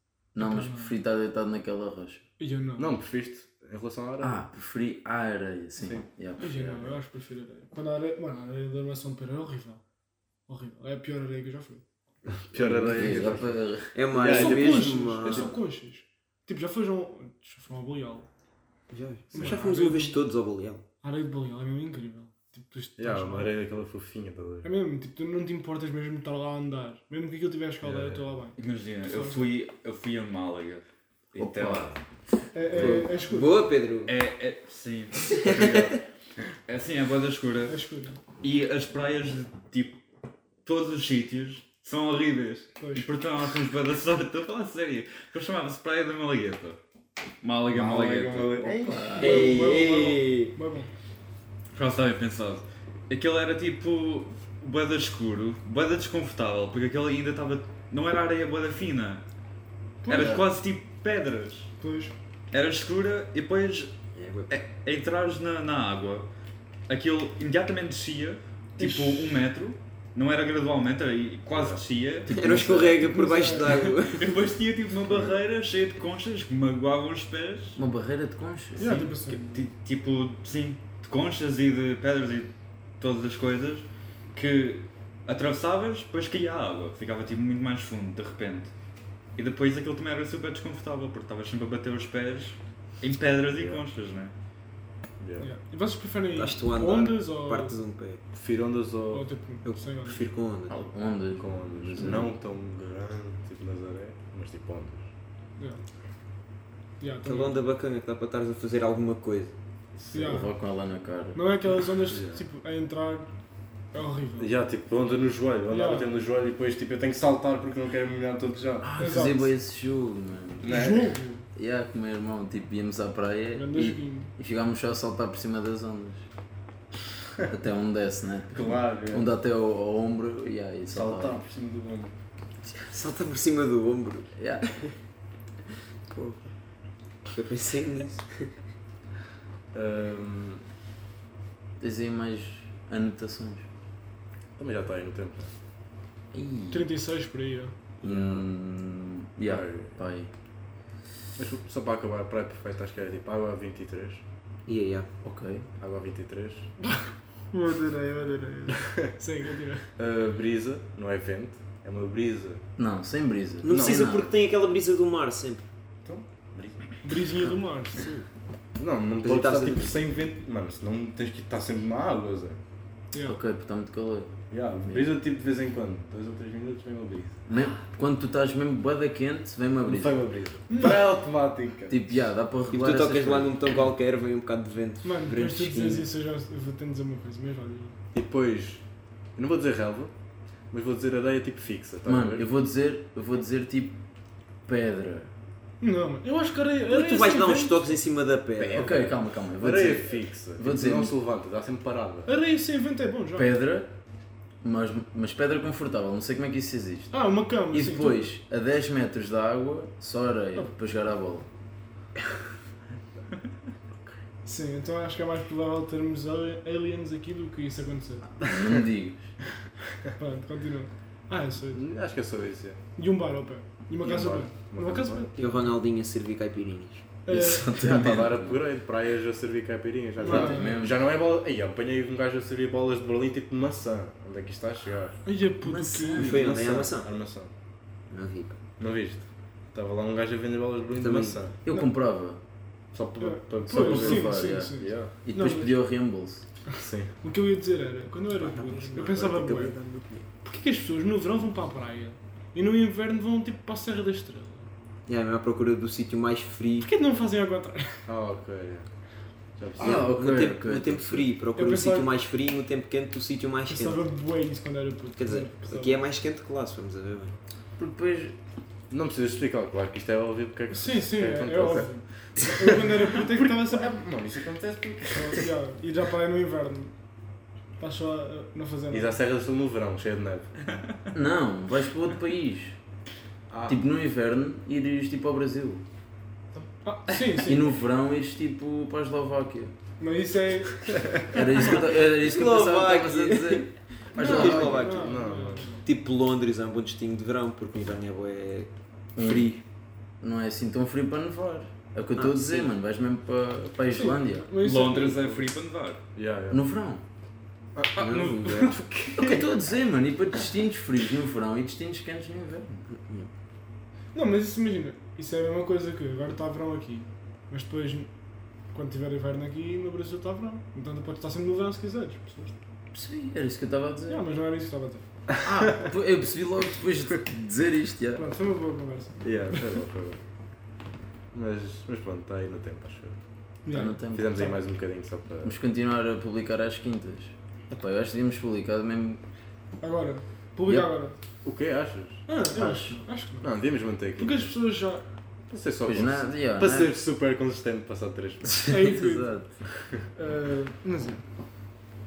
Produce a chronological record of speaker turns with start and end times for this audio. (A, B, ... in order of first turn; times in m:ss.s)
0:00.4-0:02.3 A
0:00.4-0:01.0 B
0:02.4-0:02.9 B
0:02.8-0:04.4 C
0:04.2-0:07.0 A
0:05.8-0:06.0 C
0:06.4-0:09.8 B
0:10.5-0:12.9 B
0:12.3-0:14.7 C
0:12.9-0:14.9 A
0:13.9-0:15.6 D
0:14.2-0:18.3 B
0:15.2-0:15.6 C
0:18.9-0:20.8 D
0:19.3-0:20.2 B
0:21.0-0:23.5 B
0:23.0-0:24.7 C
0:24.6-0:29.5 B
0:27.8-0:32.0 E
0:31.4-0:32.0 A
0:32.5-0:33.6 B
0:32.7-0:34.1 D
0:34.1-0:35.8 E
0:35.3-0:36.0 D
0:35.5-0:36.0 C
0:36.7-0:37.8 E
0:37.7-0:38.2 B
0:38.4-0:40.0 E
0:40.6-0:46.8 E
0:42.8-0:43.1 B
0:47.4-0:48.9 E
0:47.7-0:49.2 C
0:48.6-0:49.6 A
0:49.1-0:50.9 B
0:49.2-0:50.6 D
0:51.7-0:59.2 E
1:00.0-1:00.4 B
1:00.1-1:01.7 E
1:01.8-1:02.1 B
1:02.5-1:04.0 E
1:04.1-1:04.6 D
1:04.5-1:06.3 E
1:06.9-1:12.6 E
1:08.8-1:09.3 B
1:12.2-1:13.1 A
1:12.3-1:14.3 D
1:12.9-1:13.9 B
1:13.7-1:17.8 E
1:17.8-1:19.0 A
1:18.8-1:19.7 B
1:18.8-1:28.7 E
1:29.4-1:34.3 E
1:33.6-1:33.8 C
1:35.2-1:35.5 C
1:35.4-1:37.8 B
1:36.3-1:38.2 D
1:38.3-1:39.3 C
1:39.1-1:40.3 B
1:39.6-1:40.8 D
1:40.7-1:42.3 A
1:41.3-1:45.1 C
1:47.0-1:47.7 B
1:47.2-1:49.6 D
1:50.0-1:50.5 C
1:50.1-1:50.5 B
1:50.1-1:51.4 A
1:51.3-1:53.3 B
1:52.1-1:52.4 C
1:53.9-1:54.5 B
1:54.4-1:59.1 C
1:55.7-1:56.1 B
1:58.8-2:00.9 A
1:59.0-1:59.5 B
2:00.6-2:01.2 C
2:00.6-2:01.4 B
2:01.5-2:06.3 A
2:03.5-2:04.3 B
2:07.4-2:11.4 A
2:08.5-2:09.3 C
2:10.9-2:12.2 C
2:12.9-2:14.9 D
2:14.4-2:14.6 A
2:16.1-2:16.5 D
2:17.3-2:18.5 D
2:19.7-2:20.6 C
2:21.8-2:23.7 A
2:24.6-2:25.5 C
2:26.3-2:26.9 A
2:26.7-2:27.8 B
2:28.0-2:30.3 A
2:28.0-2:28.5 C
2:29.5-2:30.0 C
2:31.4-2:34.2 C
2:34.7-2:35.1 D
2:35.2-2:35.7 A
2:35.8-2:36.7 C
2:37.5-2:39.9 B
2:40.0-2:42.6 C
2:42.8-2:44.3 A
2:43.6-2:45.7 D
2:43.7-2:44.2 C
2:46.0-2:46.9 C
2:47.0-2:48.1 B
2:47.4-2:48.3 D
2:48.8-2:52.6 C
2:49.2-2:50.0 D
2:53.1-2:53.4 B
2:53.2-2:55.1 A
2:54.5-2:57.4 C
2:57.5-3:00.2 A
2:59.8-3:02.0 C
3:00.7-3:01.0 B
3:01.9-3:03.9 A
3:02.7-3:06.1 D
3:05.0-3:08.0 B
3:08.1-3:08.8 C
3:09.4-3:10.1 C
3:10.7-3:12.5 C
3:12.0-3:14.0 A
3:14.7-3:15.3 A
3:15.8-3:18.0 B
3:16.9-3:19.0 D
3:18.6-3:21.2 A
3:18.6-3:22.3 C
3:22.3-3:23.6 B
3:23.3-3:23.9 A
3:24.6-3:27.2 A
3:27.1-3:28.3 B
3:27.7-3:31.5 A
3:34.4-3:38.4 B
3:38.2-3:39.4 A
3:40.2-3:41.8 B
3:41.7-3:42.8 C
3:43.0-3:45.8 B
3:44.0-3:45.3 C
3:45.4-3:47.0 D
3:47.3-3:47.8 B
3:47.3-3:48.6 A
3:47.8-3:55.2 C
3:50.2-3:50.8 B
3:50.2-3:51.0 A
3:55.2-3:56.6 B
3:55.6-3:56.9 A
3:56.1-3:57.1 D
3:56.6-3:57.5 C
3:58.1-3:58.6 D
3:58.8-4:01.6 C
4:01.0-4:01.4 D
4:01.6-4:02.4 A
4:02.9-4:05.2 C
4:03.2-4:05.8 B
4:03.7-4:06.5 A
4:06.7-4:09.8 B
4:06.8-4:07.2 C
4:08.4-4:10.3 D
4:10.4-4:14.7 B
4:15.1-4:16.9 D
4:16.8-4:18.1 B
4:18.1-4:18.9 C
4:19.6-4:20.1 C
4:19.8-4:21.3 A
4:19.8-4:24.1 D
4:21.6-4:22.1 B
4:23.7-4:26.0 B
4:25.2-4:27.4 D
4:27.8-4:28.4 A
4:28.9-4:35.5 C
4:30.7-4:34.0 B
4:35.1-4:36.9 B
4:37.8-4:39.2 B
4:38.9-4:40.6 C
4:41.1-4:42.8 A
4:43.5-4:43.8 C
4:43.7-4:45.8 A
4:46.8-4:47.8 B
4:47.4-4:49.7 A
4:50.0-4:51.8 B
4:51.0-4:51.2 C
4:51.3-4:54.8 A
4:51.5-4:55.1 D
4:54.1-4:55.8 C
4:54.2-4:55.9 B
4:55.8-4:59.6 D
4:59.2-4:59.5 A
5:00.2-5:04.5 A
5:02.2-5:02.7 D
5:03.9-5:05.5 B
5:04.6-5:06.0 E
5:06.2-5:06.7 C
5:06.5-5:07.1 A
5:08.0-5:09.4 E
5:08.0-5:08.8 D
5:09.1-5:12.9 A
5:12.9-5:13.3 D
5:14.1-5:18.1 B
5:18.7-5:22.6 B
5:22.9-5:24.3 A
5:24.1-5:25.1 B
5:25.4-5:28.3 A
5:25.6-5:25.9 C
5:28.2-5:29.8 B
5:29.2-5:30.2 C
5:31.3-5:33.2 C
5:33.7-5:34.6 B
5:33.7-5:34.4 A
5:34.1-5:35.6 C
5:35.4-5:39.2 A
5:39.8-5:41.2 B
5:40.6-5:40.9 A
5:41.4-5:42.3 C
5:42.3-5:43.5 B
5:42.5-5:43.0 A
5:43.4-5:44.6 C
5:44.2-5:45.1 B
5:45.5-5:48.7 C
5:45.9-5:46.9 A
5:48.6-5:49.3 B
5:48.6-5:49.6 A
5:49.7-5:50.0 C
5:50.2-5:51.2 B